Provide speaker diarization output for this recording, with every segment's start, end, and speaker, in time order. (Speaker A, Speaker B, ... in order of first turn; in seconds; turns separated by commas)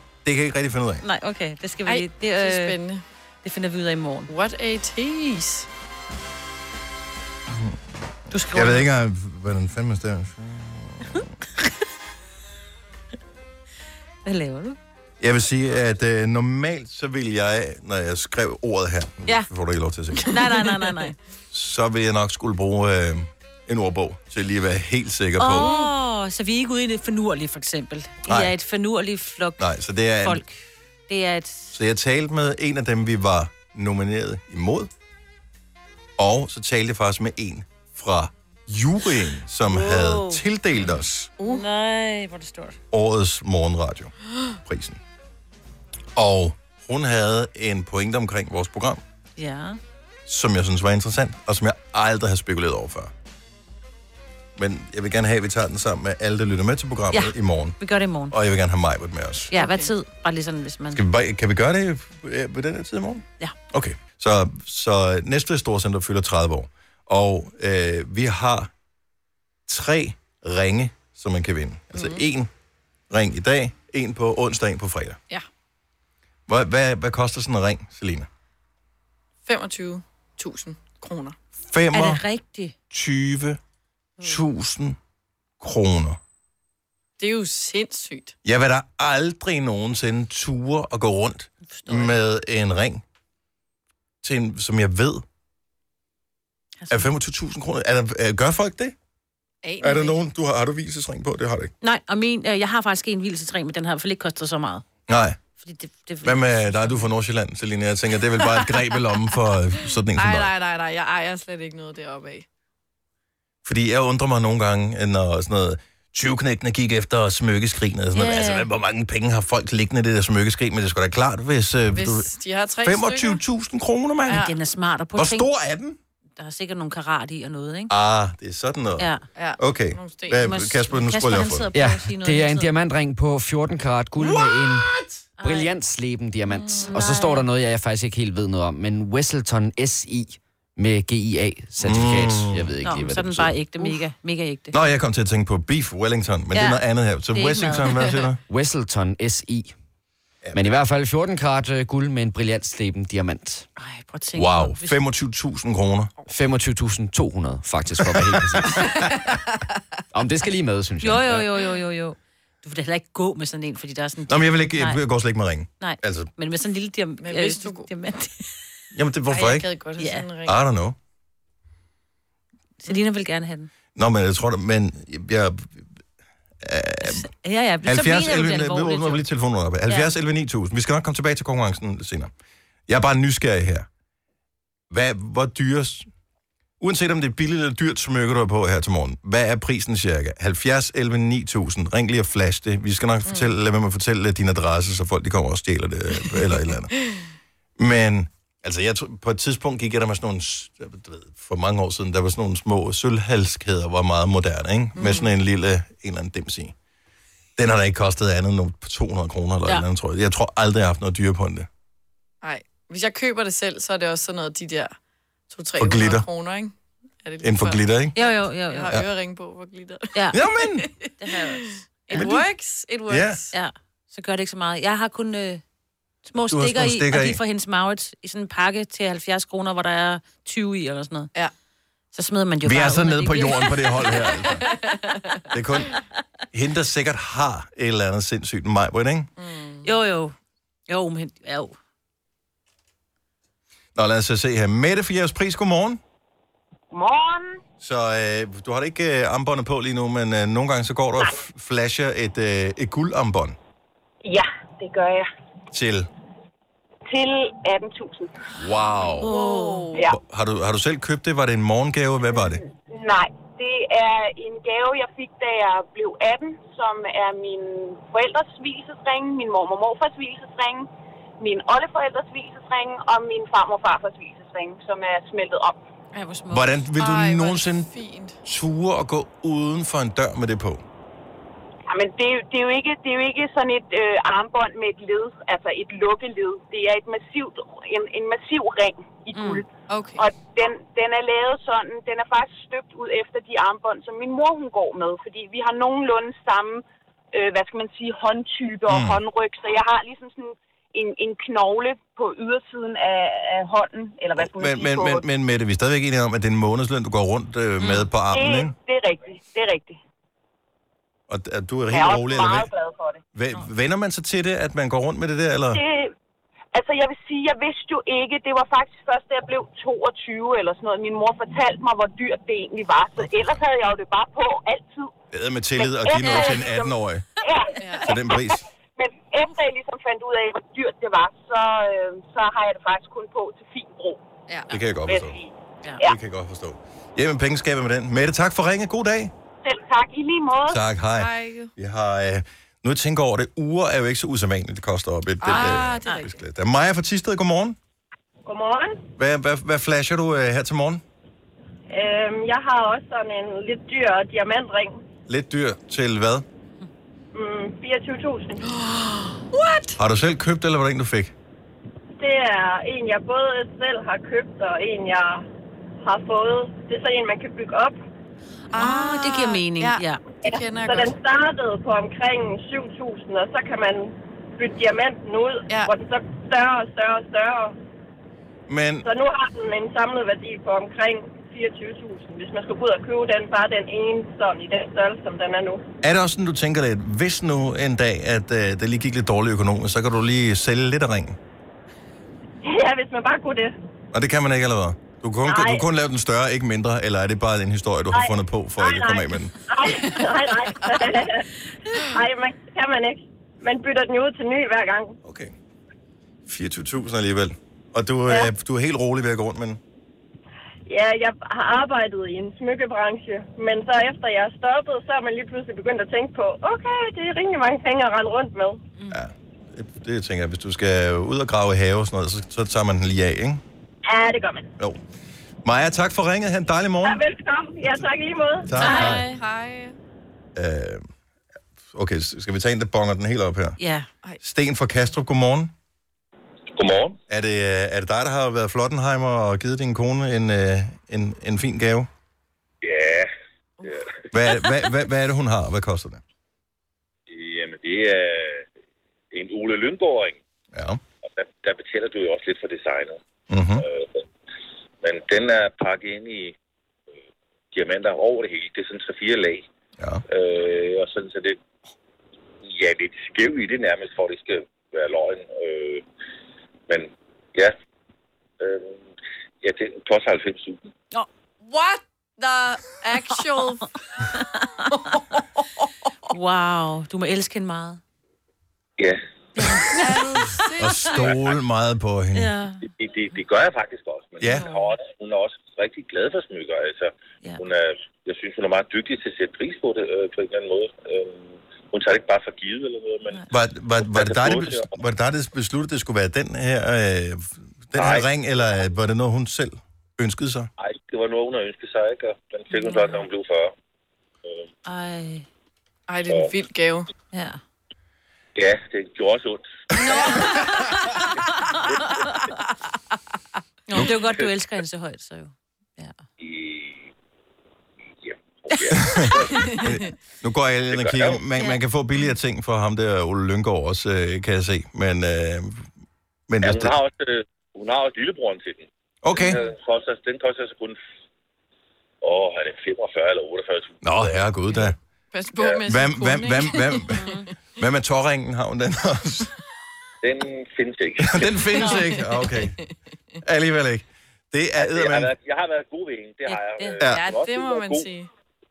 Speaker A: 0.2-1.1, Speaker B: 1.0-2.8, Speaker C: 1.9-3.0, Speaker B: 3.4-4.3, Speaker C: 4.3-5.7, Speaker A: 7.5-7.8, Speaker B: 8.3-8.9, Speaker A: 8.5-11.3, Speaker B: 14.2-14.8, Speaker A: 15.2-20.4, Speaker B: 20.3-21.1, Speaker A: 21.5-25.7, Speaker B: 25.4-29.7, Speaker C: 25.5-25.9, Speaker A: 28.3-28.5, Speaker A: 29.6-30.4, Speaker B: 30.2-30.6, Speaker B: 31.1-31.7, Speaker A: 31.7-34.9, Speaker A: 36.2-41.3, Speaker B: 39.7-40.4, Speaker B: 41.4-42.8, Speaker A: 42.9-44.1, Speaker A: 44.6-45.0, Speaker A: 46.2-49.0, Speaker B: 49.4-49.8, Speaker A: 50.3-53.1, Speaker A: 54.6-57.8, Speaker B: 57.1-58.4, Speaker A: 58.3-59.5, Speaker B: 59.5-61.0, Speaker C: 59.5-59.9, Speaker A: 60.9-68.7, Speaker A: 69.7-72.5, Speaker C: 71.9-72.2, Speaker A: 73.1-75.2, Speaker A: 76.5-78.3, Speaker C: 79.5-81.4, Speaker A: 81.6-82.2, Speaker B: 81.9-82.7, Speaker A: 82.9-83.6, Speaker A: 84.2-85.0, Speaker A: 85.6-86.2, Speaker C: 87.2-88.3, Speaker A: 88.5-93.0, Speaker B: 91.7-92.2, Speaker A: 94.2-95.2, Speaker B: 96.8-97.1, Speaker A: 96.9-99.0, Speaker C: 99.6-100.2, Speaker A: 99.8-101.7, Speaker B: 101.8-104.8, Speaker A: 105.1-105.4, Speaker B: 105.6-107.1, Speaker A: 106.2-110.5, Speaker C: 110.2-112.5, Speaker A: 113.6-122.3, Speaker B: 118.2-118.7, Speaker C: 121.9-123.4, Speaker A: 122.8-124.5, Speaker C: 124.3-124.5, Speaker B: 124.3-125.5, Speaker A: 125.2-126.0, Speaker B: 126.4-127.9, Speaker A: 127.9-131.7, Speaker B: 129.0-129.2, Speaker C: 129.4-130.4, Speaker B: 130.4-132.7, Speaker D: 131.7-143.6, Speaker B: 135.4-135.7, Speaker C: 136.5-137.0, Speaker B: 136.9-137.4, Speaker A: 141.8-142.7, Speaker B: 142.8-144.8, Speaker A: 144.7-148.4, Speaker B: 146.5-148.2, Speaker D: 148.5-149.8, Speaker A: 150.4-150.7, Speaker D: 150.5-153.7, Speaker B: 153.8-155.0, Speaker A: 154.3-156.1, Speaker D: 156.3-159.0, Speaker D: 160.1-161.4, Speaker B: 161.0-165.0, Speaker A: 164.3-166.3, Speaker B: 165.8-168.4, Speaker C: 167.2-167.9, Speaker A: 168.9-169.7, Speaker C: 169.3-170.6, Speaker B: 170.0-170.2, Speaker A: 170.5-171.0, Speaker B: 172.8-173.7, Speaker A: 173.9-175.9, Speaker A: 176.6-177.3, Speaker B: 177.0-179.2, Speaker A: 177.8-182.3, Speaker B: 179.9-180.1, Speaker A: 182.9-183.9, Speaker A: 184.9-186.1, Speaker A: 186.8-196.9, Speaker A: 197.8-206.8, Speaker C: 205.0-205.3, Speaker A: 207.6-211.7, Speaker C: 212.4-214.9, Speaker C: 215.5-223.5, Speaker A: 215.8-216.3, Speaker A: 217.4-218.2, Speaker B: 218.2-218.9, Speaker B: 220.1-220.4, Speaker A: 220.3-220.9, Speaker B: 221.2-222.3, Speaker A: 222.1-222.4, Speaker A: 223.1-223.4, Speaker B: 223.5-225.6, Speaker B: 226.2-231.3, Speaker A: 226.5-227.4, Speaker B: 232.1-234.8, Speaker A: 232.6-234.7, Speaker C: 234.6-235.4, Speaker A: 235.5-235.9, Speaker A: 236.5-239.3, Speaker C: 239.4-239.9, Speaker B: 239.8-240.3, Speaker B: 240.9-241.8, Speaker A: 243.9-246.0, Speaker E: 246.9-247.6, Speaker A: 247.8-253.6, Speaker E: 254.2-255.3, Speaker A: 255.7-256.1, Speaker E: 257.1-258.4, Speaker A: 258.6-259.3, Speaker B: 259.2-259.9, Speaker C: 259.2-260.1, Speaker A: 260.1-262.6, Speaker E: 262.4-270.9, Speaker E: 271.4-275.8, Speaker B: 276.1-276.7, Speaker A: 276.5-277.9, Speaker C: 277.0-278.4, Speaker A: 278.4-280.8, Speaker E: 281.9-305.3, Speaker B: 289.3-289.6, Speaker C: 289.9-290.2, Speaker A: 298.9-299.2, Speaker A: 304.4-308.7, Speaker B: 307.8-308.1, Speaker E: 308.3-310.0, Speaker A: 311.3-312.7, Speaker E: 311.9-313.2, Speaker A: 313.3-315.8, Speaker E: 315.7-316.1, Speaker E: 316.7-325.1, Speaker A: 323.2-323.5, Speaker A: 325.3-327.3, Speaker E: 325.8-334.2, Speaker B: 326.2-326.5, Speaker C: 327.8-328.1, Speaker A: 328.0-328.6, Speaker A: 334.7-335.4, Speaker E: 335.1-336.2, Speaker A: 336.0-339.3, Speaker E: 339.6-340.8, Speaker A: 340.7-347.8, Speaker C: 341.2-341.7, Speaker C: 345.4-346.3, Speaker B: 345.5-346.2, Speaker F: 348.4-349.0, Speaker A: 349.2-351.0, Speaker F: 351.9-355.0, Speaker A: 355.3-356.4, Speaker F: 357.3-358.6, Speaker C: 358.6-360.0, Speaker A: 360.0-361.3, Speaker F: 362.2-365.4, Speaker F: 366.0-368.0, Speaker C: 368.7-371.2, Speaker B: 368.7-370.2, Speaker F: 370.5-377.8, Speaker A: 378.7-379.1, Speaker F: 379.0-385.8, Speaker A: 386.0-391.4, Speaker F: 392.6-393.8, Speaker A: 394.1-399.5, Speaker F: 395.5-395.8, Speaker F: 398.1-401.4, Speaker F: 402.0-405.2, Speaker A: 405.2-405.5, Speaker A: 406.5-409.8, Speaker F: 410.9-418.8, Speaker A: 419.1-423.6, Speaker F: 424.1-424.7, Speaker A: 425.6-427.2, Speaker F: 427.0-428.7, Speaker A: 428.6-429.2, Speaker B: 428.8-429.4, Speaker C: 428.8-430.0, Speaker A: 430.6-431.0, Speaker A: 431.9-433.8, Speaker B: 433.8-434.1, Speaker A: 434.4-435.7, Speaker G: 436.7-437.2, Speaker A: 437.3-442.1, Speaker G: 442.8-443.3, Speaker A: 444.3-446.2, Speaker G: 447.3-448.7, Speaker G: 449.3-450.4, Speaker A: 450.7-451.0, Speaker G: 451.2-453.2, Speaker A: 453.5-453.9, Speaker G: 453.8-454.2, Speaker G: 455.0-456.6, Speaker G: 457.7-459.7, Speaker G: 460.3-461.6, Speaker G: 462.6-466.0, Speaker G: 466.9-467.7, Speaker G: 468.6-469.1, Speaker G: 469.6-470.8, Speaker C: 471.6-473.9, Speaker B: 474.3-474.9, Speaker B: 476.3-478.0, Speaker B: 479.6-480.2, Speaker C: 479.9-481.3, Speaker A: 480.8-482.5, Speaker B: 482.4-482.8, Speaker G: 482.8-493.4, Speaker A: 484.4-484.7, Speaker B: 484.5-484.9, Speaker A: 493.5-500.7, Speaker G: 494.0-494.9, Speaker G: 498.0-498.3, Speaker G: 500.8-503.7, Speaker B: 502.7-503.2, Speaker B: 504.9-505.5, Speaker C: 506.1-507.1, Speaker B: 507.3-507.6, Speaker G: 508.6-510.4, Speaker C: 510.0-510.7, Speaker B: 510.1-511.0, Speaker B: 511.5-512.4, Speaker G: 511.9-512.3, Speaker B: 513.9-516.2, Speaker G: 516.4-517.1, Speaker G: 518.2-519.6, Speaker A: 518.9-525.9, Speaker G: 520.9-521.4, Speaker A: 526.5-527.0, Speaker G: 526.6-531.0, Speaker A: 529.2-529.6, Speaker G: 532.2-534.3, Speaker A: 534.0-535.0, Speaker C: 535.3-537.4, Speaker G: 535.6-535.8, Speaker A: 535.9-537.2, Speaker B: 537.1-537.5, Speaker A: 537.8-539.5, Speaker G: 540.2-541.6, Speaker A: 541.2-542.8, Speaker B: 541.8-542.0, Speaker C: 541.9-542.6, Speaker A: 543.4-545.3, Speaker G: 544.8-548.1, Speaker B: 546.5-547.0, Speaker C: 547.1-548.3